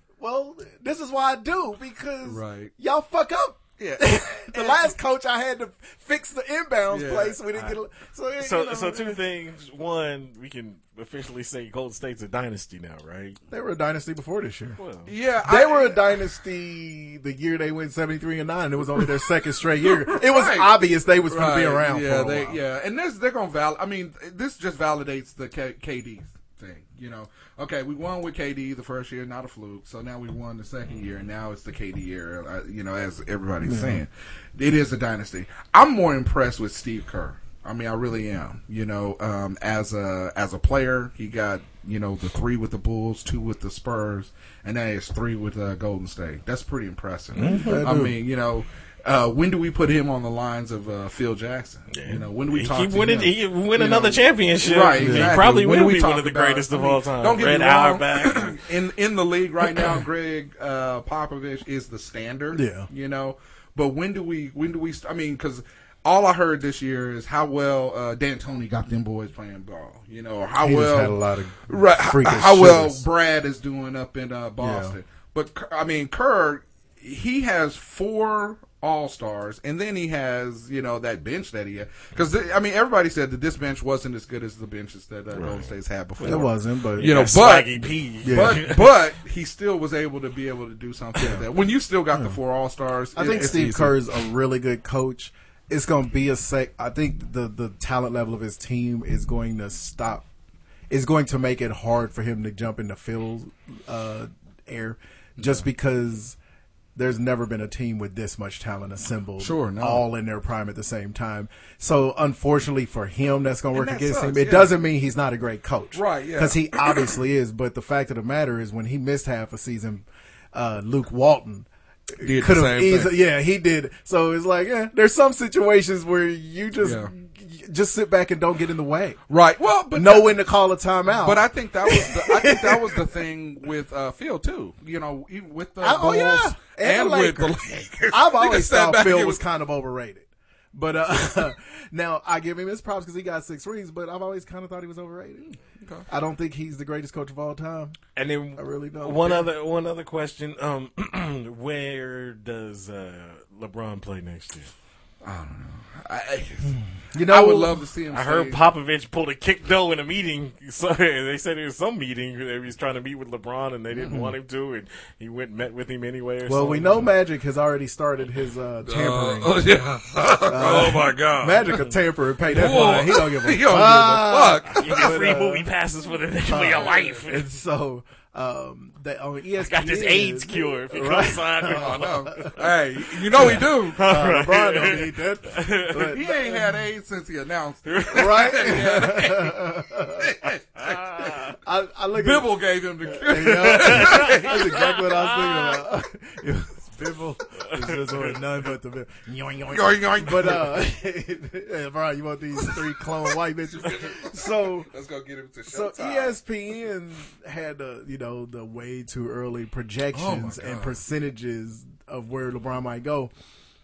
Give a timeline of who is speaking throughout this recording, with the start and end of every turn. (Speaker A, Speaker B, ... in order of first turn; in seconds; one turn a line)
Speaker A: 0.2-9.2
Speaker B: 2.2-2.7
Speaker B: 3.8-4.9
Speaker B: 6.9-7.7
Speaker C: 8.4-13.4
Speaker A: 13.5-14.8
Speaker C: 14.8-15.1
Speaker B: 15.1-16.2
Speaker A: 15.4-22.6
Speaker B: 19.8-94.0
Speaker A: 33.6-34.0
Speaker C: 47.4-47.8
Speaker A: 47.4-48.2
Speaker C: 51.9-58.5
Speaker A: 55.0-55.4
Speaker A: 62.5-62.9
Speaker A: 70.6-73.0
Speaker A: 74.6-75.0
Speaker C: 85.4-85.6
Speaker A: 86.2-87.2
Speaker C: 87.0-88.8
Speaker A: 88.2-88.7
Speaker A: 93.2-100.3
Speaker A: 100.9-106.4
Speaker B: 105.4-105.6
Speaker A: 107.0-121.7
Speaker B: 109.4-110.1
Speaker B: 113.7-114.8
Speaker B: 115.9-117.1
Speaker A: 122.2-129.2
Speaker B: 122.2-123.2
Speaker B: 126.8-127.1
Speaker B: 129.3-130.4
Speaker A: 129.9-133.0
Speaker B: 131.2-139.4
Speaker A: 135.8-137.6
Speaker A: 138.1-145.5
Speaker B: 145.4-146.1
Speaker A: 146.1-148.0
Speaker C: 148.2-154.7
Speaker A: 148.6-149.5
Speaker B: 155.2-156.8
Speaker A: 156.7-157.8
Speaker B: 157.3-158.7
Speaker C: 158.1-167.0
Speaker A: 164.1-164.3
Speaker A: 166.4-169.7
Speaker B: 168.8-171.8
Speaker A: 170.5-175.7
Speaker B: 172.5-175.4
Speaker C: 174.8-177.5
Speaker A: 176.4-182.5
Speaker B: 176.8-177.1
Speaker C: 179.6-182.5
Speaker B: 181.7-184.1
Speaker A: 183.4-186.7
Speaker C: 183.5-185.1
Speaker C: 185.6-185.9
Speaker B: 185.9-189.6
Speaker C: 187.9-188.7
Speaker A: 188.1-190.4
Speaker B: 190.2-191.0
Speaker A: 191.6-192.5
Speaker B: 192.2-195.0
Speaker A: 193.2-204.9
Speaker C: 193.9-195.8
Speaker B: 199.7-200.8
Speaker B: 202.6-202.9
Speaker B: 203.7-206.4
Speaker A: 205.7-213.3
Speaker B: 210.1-211.0